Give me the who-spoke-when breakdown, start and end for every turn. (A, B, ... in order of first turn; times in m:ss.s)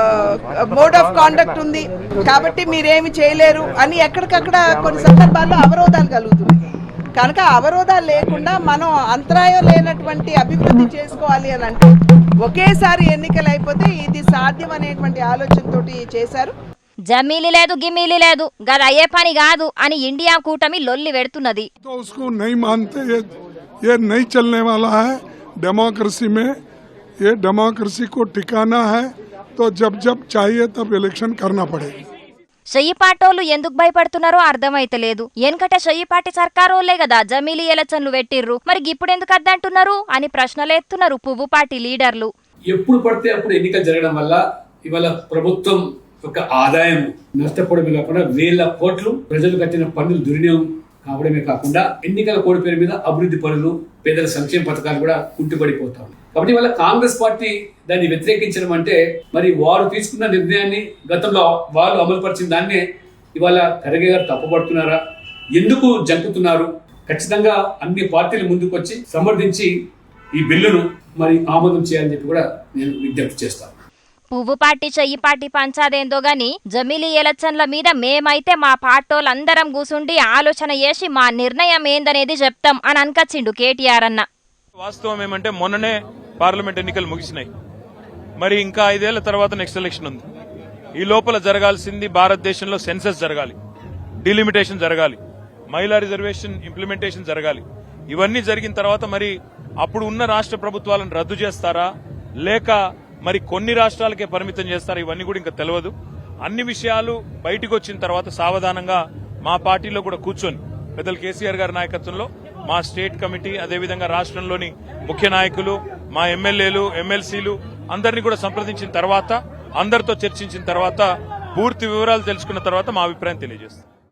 0:00.3-0:06.6 A
0:07.2-0:16.6 A
0:17.1-0:21.7 B
0:21.9-0:23.3 C
0:23.9-0:25.0 C
0:25.6-0:26.5 C
0:27.3-0:29.0 C
0:29.6-0:31.9 C
0:32.7-0:42.3 B
0:42.7-1:02.8 D
1:03.4-1:05.0 D
1:05.6-1:09.7 D
1:10.4-1:13.7 D
1:14.3-1:24.3 B
1:24.8-1:27.5 E
1:28.4-1:30.2 E
1:31.0-1:33.6 E
1:34.2-1:41.9 E
1:42.4-2:03.8 E